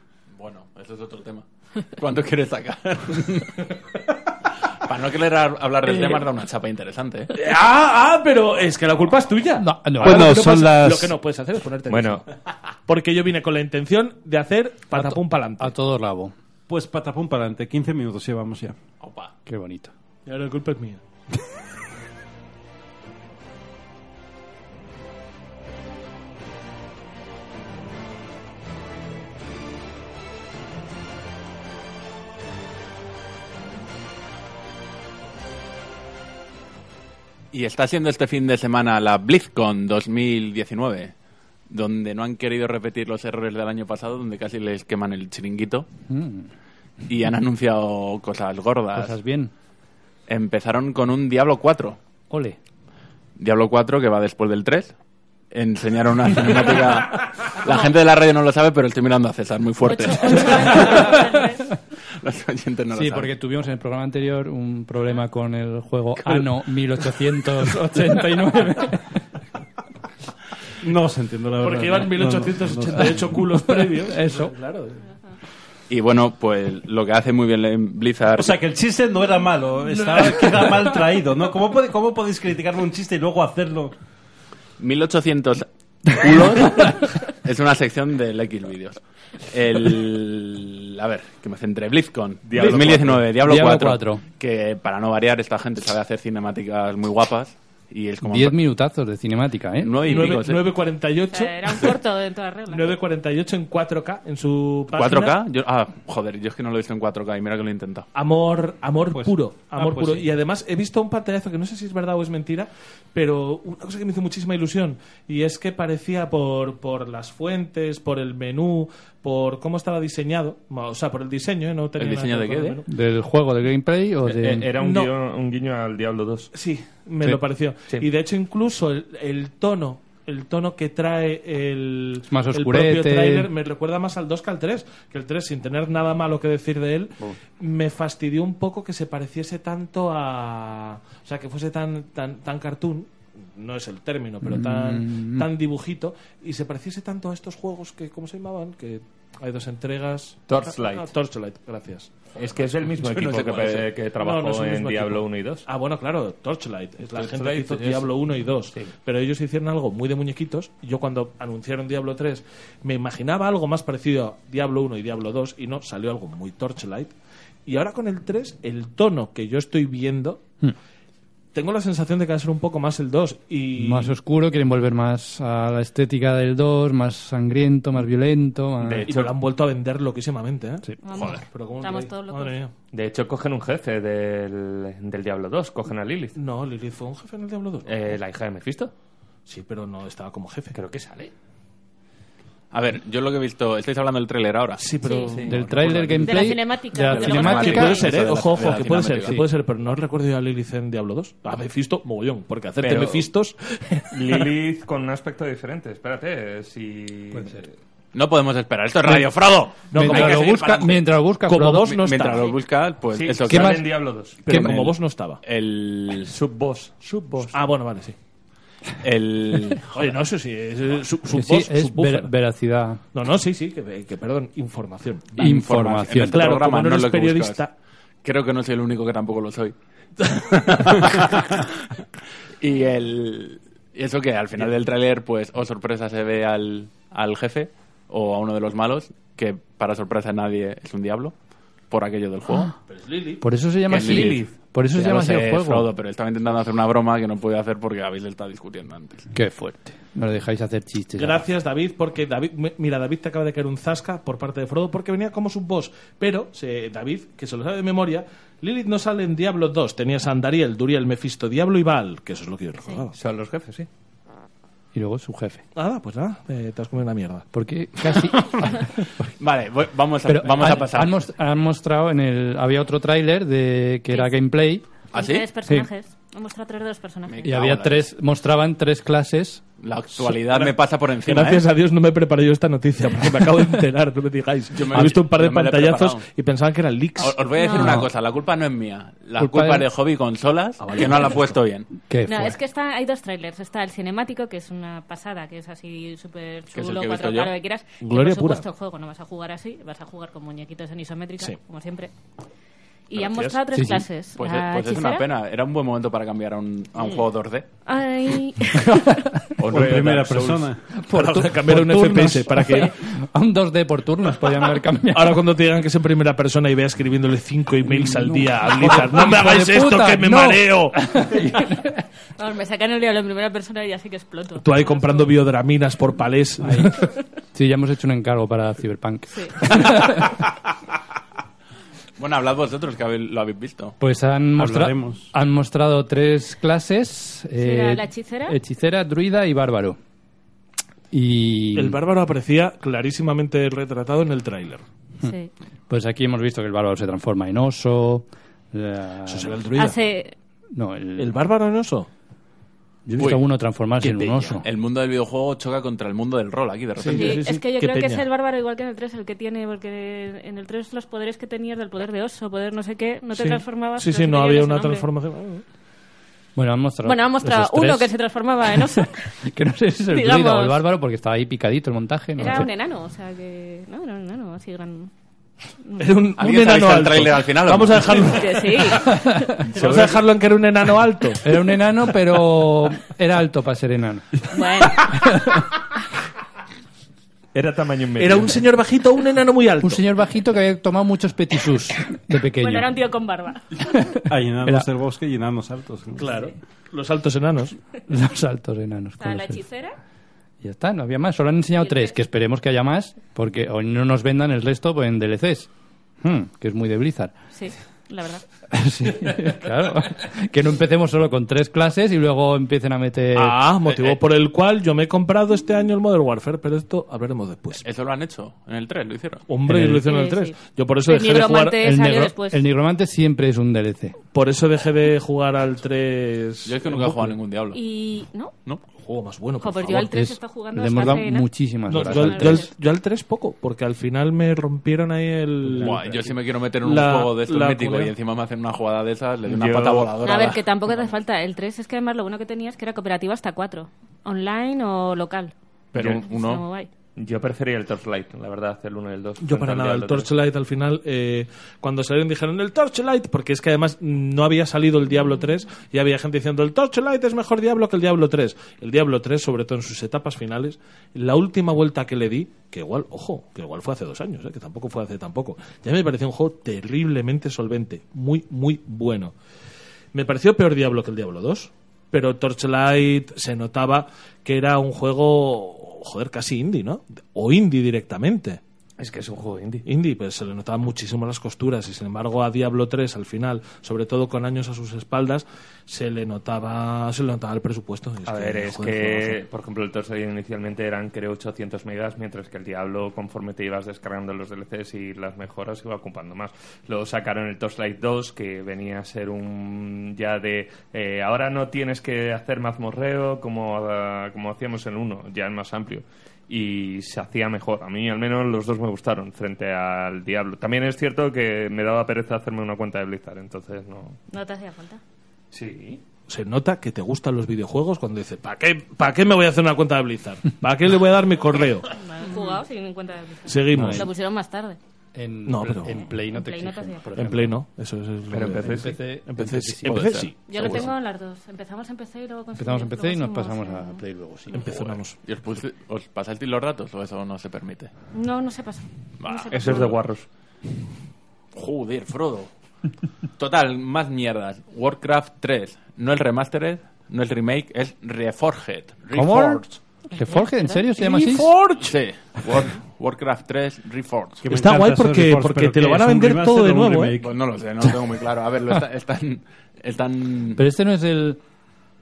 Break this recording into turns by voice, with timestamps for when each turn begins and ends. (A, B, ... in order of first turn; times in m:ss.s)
0:00.4-0:03.8 A
0:04.8-0:07.3 A
0:05.9-0:06.2 B
0:07.3-0:12.3 B
0:09.6-0:10.4 C
0:10.0-0:11.1 D
0:11.9-0:12.2 E
0:12.9-0:15.7 B
0:14.9-0:16.3 C
0:16.7-0:18.8 D
0:19.0-0:19.3 A
0:19.4-0:19.9 C
0:20.2-0:21.0 B
0:37.5-0:41.1 A
0:41.7-0:45.9 A
0:46.1-0:46.5 C
0:47.0-0:49.2 A
0:48.9-0:49.5 C
0:50.3-0:52.0 A
0:52.3-0:52.6 C
0:53.4-0:54.9 A
0:55.5-1:01.4 A
0:59.8-1:01.6 F
1:02.2-1:03.3 A
1:02.9-1:09.1 C
1:10.8-1:13.3 D
1:11.6-1:15.0 B
1:13.6-1:14.5 C
1:15.9-1:18.6 A
1:18.4-1:23.9 D
1:24.8-1:38.6 A
1:32.4-1:33.3 E
1:33.4-1:34.2 C
1:38.2-1:40.2 C
1:39.8-1:40.6 A
1:40.0-1:41.9 B
1:41.3-1:42.9 F
1:42.7-1:45.4 B
1:44.9-1:48.1 A
1:48.1-2:02.9 B
1:49.1-1:50.3 D
2:02.0-2:02.8 A
2:02.9-2:04.7 C
2:04.2-2:06.5 E
2:04.8-2:05.1 B
2:06.5-2:32.1 B
2:12.3-2:13.5 C
2:24.4-2:25.5 C
2:30.5-2:31.1 E
2:32.4-2:35.6 E
2:32.4-2:33.9 A
2:34.2-2:47.1 B
2:37.1-2:38.1 E
2:47.6-2:50.4 B
2:51.5-2:54.1 B
2:53.8-2:59.1 C
2:58.8-2:59.3 E
2:59.0-3:02.7 B
3:01.0-3:02.5 F
3:02.9-3:06.4 E
3:06.4-3:08.2 B
3:07.8-3:08.9 E
3:09.5-3:10.8 B
3:10.7-3:11.3 E
3:12.7-3:16.3 A
3:14.8-3:15.6 B
3:15.0-3:15.3 F
3:15.5-3:18.0 C
3:16.2-3:18.2 F
3:17.1-3:19.4 A
3:17.3-3:24.4 B
3:22.8-3:23.2 A
3:24.1-3:27.7 E
3:27.3-3:27.6 C
3:28.1-3:31.0 A
3:29.0-3:29.3 C
3:29.9-3:30.6 B
3:29.9-3:32.0 C
3:31.5-3:32.5 B
3:31.8-3:33.9 A
3:33.1-3:34.4 E
3:33.5-3:33.8 C
3:34.4-3:35.4 B
3:34.4-3:36.3 A
3:34.5-3:34.8 C
3:36.2-3:37.5 E
3:37.5-3:38.2 B
3:39.0-3:40.0 A
3:39.9-3:42.3 B
3:41.3-3:43.0 C
3:43.1-3:45.6 B
3:45.4-3:46.4 C
3:45.4-3:47.6 A
3:46.1-3:47.7 B
3:48.2-3:51.8 A
3:52.6-4:01.3 A
4:01.9-4:02.7 A
4:02.9-4:03.4 B
4:03.4-4:05.9 C
4:03.9-4:09.3 A
4:04.0-4:04.3 B
4:09.3-4:11.4 C
4:11.2-4:23.2 B
4:23.2-4:23.9 E
4:24.9-4:25.6 C
4:25.7-4:27.5 B
4:27.5-4:29.3 C
4:29.4-4:31.2 A
4:30.2-4:34.8 C
4:35.1-4:35.5 A
4:35.1-4:37.5 F
4:37.2-4:38.1 A
4:37.4-4:39.6 C
4:39.8-4:41.6 A
4:40.4-4:47.4 B
4:44.7-4:46.2 A
4:47.2-4:51.9 A
4:47.6-4:48.0 F
4:47.8-4:48.0 C
4:49.4-4:49.9 C
4:50.8-4:51.6 B
4:52.1-4:52.6 C
4:52.2-5:02.1 F
4:56.7-4:57.5 A
4:58.0-4:58.6 B
5:03.1-5:05.2 F
5:03.1-5:03.6 B
5:03.7-5:04.1 C
5:04.4-5:07.6 A
5:07.8-5:09.1 F
5:09.6-5:10.7 A
5:09.7-5:10.8 D
5:10.9-5:15.4 C
5:11.1-5:12.9 B
5:15.1-5:20.9 B
5:17.8-5:22.0 C
5:22.4-5:25.3 F
5:24.6-5:26.9 B
5:26.6-5:30.4 C
5:32.2-5:34.0 A
5:34.0-5:40.0 C
5:34.6-5:35.3 D
5:37.6-5:38.6 F
5:41.1-5:42.0 C
5:41.7-5:44.8 B
5:45.2-5:45.5 F
5:45.9-5:49.6 C
5:49.3-5:50.0 B
5:49.8-5:50.3 F
5:50.7-5:51.4 C
5:51.2-5:52.1 B
5:53.0-5:54.6 C
5:54.0-5:57.4 A
5:57.0-5:58.2 B
5:57.1-6:05.1 F
6:03.3-6:05.6 B
6:06.6-6:08.1 C
6:07.0-6:09.1 F
6:08.7-6:12.7 C
6:10.1-6:10.8 F
6:12.4-6:15.1 F
6:16.0-6:21.4 B
6:16.4-6:18.4 A
6:18.3-6:19.5 F
6:19.6-6:20.2 A
6:21.4-6:24.4 C
6:24.5-6:25.1 F
6:25.0-6:25.6 C
6:27.5-6:28.6 E
6:28.2-6:30.0 B
6:29.8-6:32.9 C
6:32.6-6:33.8 F
6:34.2-6:36.3 D
6:36.2-6:37.8 B
6:36.2-6:36.5 F
6:38.1-6:39.6 C
6:39.2-6:39.9 F
6:40.6-6:45.7 C
6:41.8-6:42.2 F
6:46.2-6:47.3 C
6:47.5-6:48.4 F
6:48.7-6:53.6 C
6:53.3-6:57.8 B
6:53.9-6:54.2 A
6:57.8-6:59.4 A
6:59.5-7:01.8 B
6:59.7-7:00.0 C
7:00.0-7:00.6 F
7:01.1-7:02.6 F
7:01.8-7:04.2 C
7:04.3-7:07.3 B
7:06.6-7:07.8 A
7:07.7-7:08.5 F
7:09.0-7:10.1 B
7:09.6-7:12.7 F
7:09.9-7:12.7 C
7:11.9-7:16.3 B
7:15.7-7:21.0 A
7:16.8-7:18.1 B
7:19.5-7:20.1 E
7:20.2-7:26.9 F
7:25.9-7:26.6 A
7:26.0-7:26.2 E
7:27.2-7:30.3 E
7:29.4-7:49.3 B
7:50.1-7:58.6 B
7:59.0-7:59.8 E
7:59.8-8:09.4 B
8:08.2-8:34.2 E
8:34.3-8:35.0 F
8:35.5-8:36.0 E
8:36.3-8:41.9 B
8:41.9-8:44.8 F
8:43.5-8:44.0 B
8:43.7-8:44.1 C
8:45.1-8:47.5 C
8:45.4-8:46.0 B
8:46.3-8:47.0 F
8:47.2-8:50.8 B
8:48.3-8:49.0 E
8:48.5-8:50.2 C
8:49.8-8:50.9 A
8:50.5-8:54.0 F
8:52.6-8:54.8 C
8:54.5-8:55.2 B
8:54.6-8:57.9 A
8:58.1-9:00.0 F
8:59.2-9:00.0 A
8:59.5-9:00.2 E
9:01.5-9:02.5 A
9:03.4-9:09.6 A
9:09.1-9:11.5 C
9:10.1-9:10.8 F
9:11.0-9:12.0 B
9:11.8-9:14.4 A
9:14.4-9:17.3 D
9:14.5-9:17.2 B
9:17.2-9:20.6 A
9:20.6-9:21.4 C